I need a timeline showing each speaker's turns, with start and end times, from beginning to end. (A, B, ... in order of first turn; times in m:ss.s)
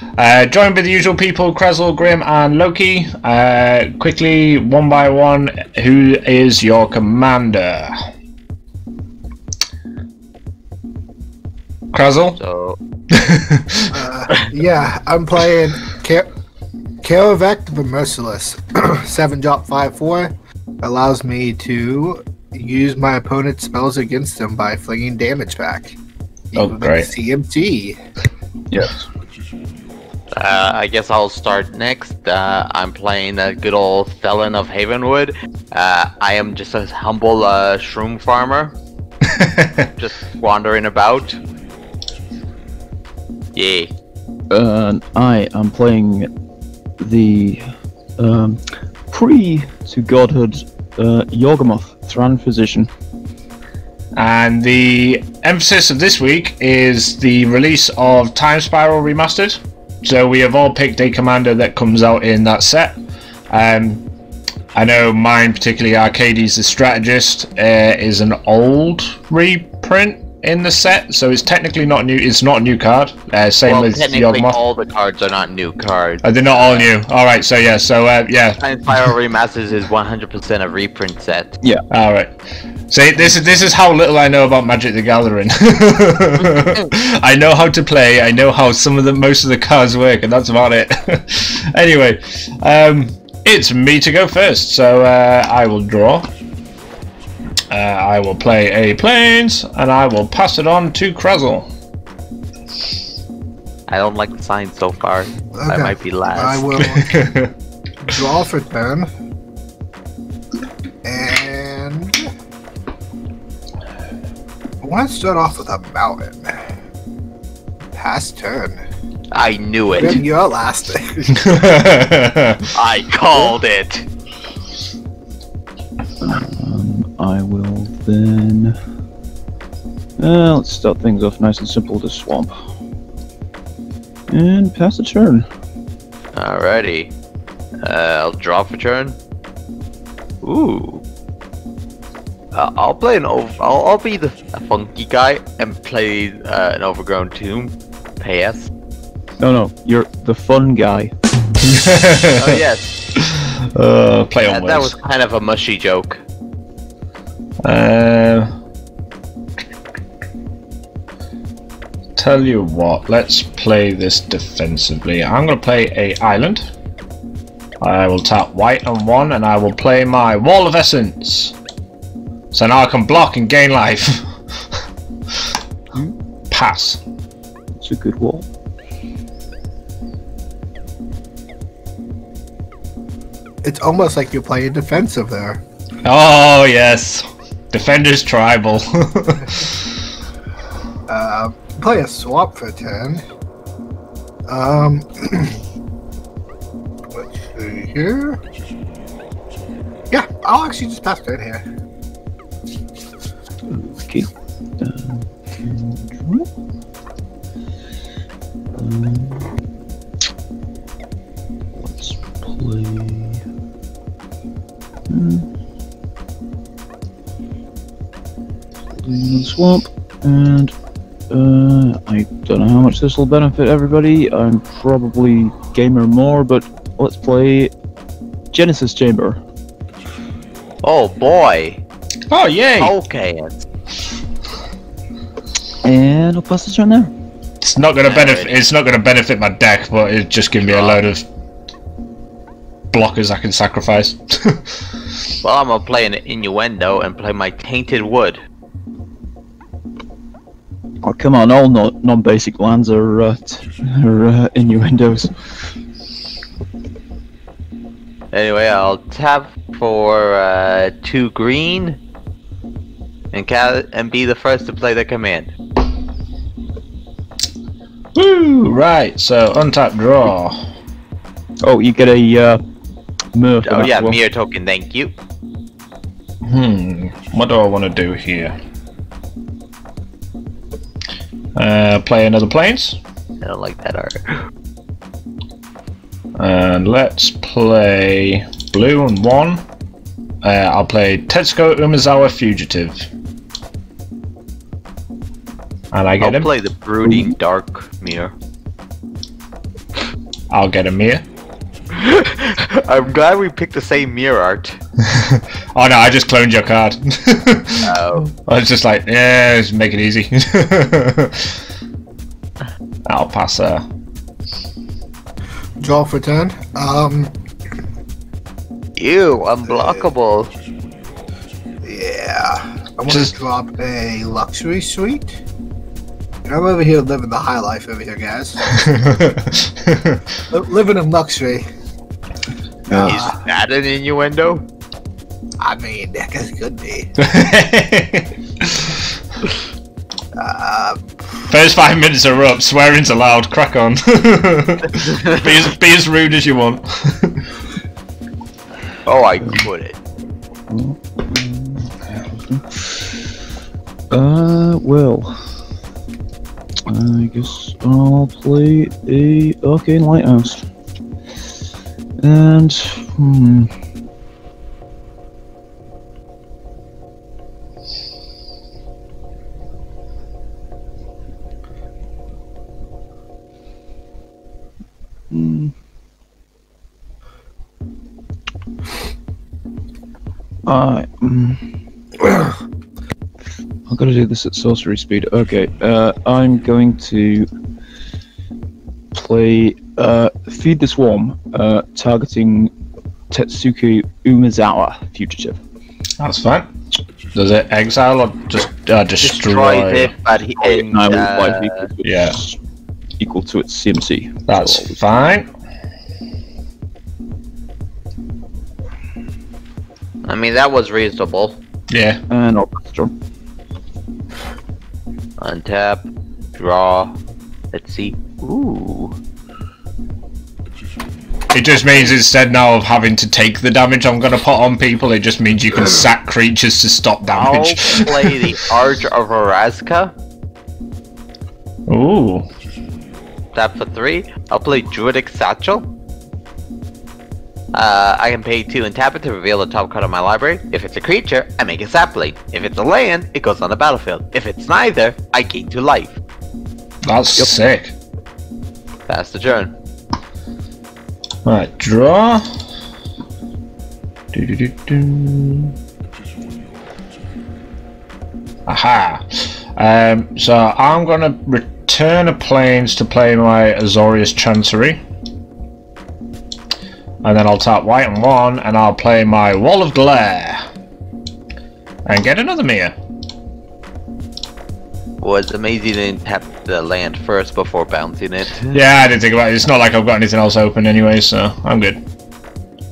0:00.2-0:08.0 A
0:11.9-0:12.4 A
0:12.4-0:12.8 B
0:13.1-0:14.0 A
0:13.9-0:16.3 C
0:17.0-0:26.0 C
0:26.5-0:28.0 C
0:26.6-0:27.1 A
0:28.7-0:29.1 D
0:30.4-0:38.8 B
0:39.3-0:39.8 A
0:40.0-0:41.4 B
0:43.6-0:43.9 B
0:44.5-0:46.3 D
0:47.0-0:52.9 D
0:54.2-1:03.0 A
1:03.5-1:04.0 A
1:04.8-1:14.6 A
1:13.7-1:16.9 B
1:16.2-1:18.6 A
1:18.6-1:21.5 B
1:21.9-1:22.3 A
1:22.9-1:36.3 A
1:37.7-1:41.7 A
1:43.9-1:46.7 B
1:45.6-1:47.1 C
1:46.8-1:47.5 A
1:48.0-1:49.1 C
1:51.0-1:52.3 C
1:54.8-1:56.7 C
1:57.9-1:58.8 C
1:59.3-2:00.2 B
2:00.0-2:02.0 C
2:01.4-2:02.7 A
2:02.8-2:04.1 B
2:06.2-2:08.8 D
2:10.2-2:12.6 D
2:14.3-2:15.5 D
2:16.4-2:17.1 B
2:17.8-2:19.2 B
2:20.4-2:21.0 B
2:22.5-2:28.7 B
2:29.4-2:31.1 D
2:31.7-2:32.6 A
2:32.4-2:32.9 B
2:33.2-2:34.9 A
2:34.4-2:36.2 B
2:37.6-2:38.5 A
2:42.2-2:46.7 A
2:47.8-2:51.6 A
2:52.5-2:54.3 A
2:56.5-2:57.0 A
2:57.7-2:58.5 D
3:03.6-3:05.6 C
3:06.0-3:09.7 A
3:09.4-3:09.6 C
3:11.1-3:13.2 C
3:14.5-3:15.6 C
3:17.1-3:18.4 C
3:20.1-3:21.6 C
3:23.7-3:26.5 D
3:28.8-3:29.5 D
3:31.8-3:33.4 D
3:35.1-3:35.5 D
3:38.9-3:40.7 D
3:41.3-3:47.7 D
3:48.5-3:49.4 D
3:50.8-3:51.8 B
3:52.3-3:52.9 A
3:52.8-3:53.6 B
3:55.8-3:57.1 D
3:57.6-4:01.2 A
3:58.0-3:58.6 B
4:00.6-4:01.0 B
4:02.9-4:04.6 A
4:05.4-4:08.4 B
4:11.0-4:15.5 D
4:18.3-4:22.0 B
4:23.3-4:25.5 B
4:28.2-4:30.6 A
4:31.6-4:32.6 D
4:33.4-4:34.2 D
4:33.6-4:35.1 B
4:36.5-4:38.6 A
4:41.6-4:43.0 A
4:43.4-4:44.5 B
4:46.4-4:49.6 A
4:50.4-4:53.1 A
4:55.9-4:56.5 A
4:56.2-4:58.3 B
4:57.0-4:57.3 D
5:00.5-5:01.2 A
5:01.9-5:04.8 B
5:05.0-5:11.5 A
5:07.8-5:08.3 B
5:13.1-5:13.8 A
5:15.8-5:17.4 C
5:19.0-5:20.5 B
5:19.7-5:20.1 C
5:21.8-5:25.4 C
5:26.4-5:29.1 C
5:28.8-5:30.2 A
5:30.5-5:31.7 C
5:32.9-5:33.4 C
5:32.9-5:33.2 D
5:33.0-5:34.7 B
5:35.6-5:37.1 C
5:37.2-5:39.0 A
5:40.4-5:41.2 C
5:41.5-5:47.4 A
5:44.9-5:45.5 B
5:49.1-5:50.0 B
5:50.7-5:53.2 D
5:54.1-5:55.4 D
5:56.9-6:00.6 D
6:02.2-6:03.7 D
6:15.3-6:15.7 D
6:20.7-6:21.6 D
6:23.9-6:27.5 D
6:29.1-6:32.7 D
6:33.3-6:35.6 D
6:36.2-6:36.7 A
6:37.4-6:40.1 A
6:39.2-6:41.9 B
6:40.6-6:42.6 D
6:42.0-6:42.4 A
6:43.2-6:45.3 D
6:44.5-6:45.5 A
6:50.2-6:51.6 B
6:51.9-6:52.2 A
6:52.3-6:53.1 D
6:55.4-6:57.2 B
6:57.7-6:59.2 B
7:01.5-7:08.4 A
7:07.3-7:10.1 B
7:11.9-7:12.5 A
7:13.5-7:15.9 B
7:17.7-7:26.2 B
7:27.0-7:27.9 A
7:29.1-7:29.7 B
7:31.5-7:32.5 A
7:34.3-7:35.7 A
7:38.7-7:45.0 A
7:47.2-7:50.6 A
7:52.1-7:52.9 A
7:55.2-7:58.8 B
7:58.7-8:02.0 A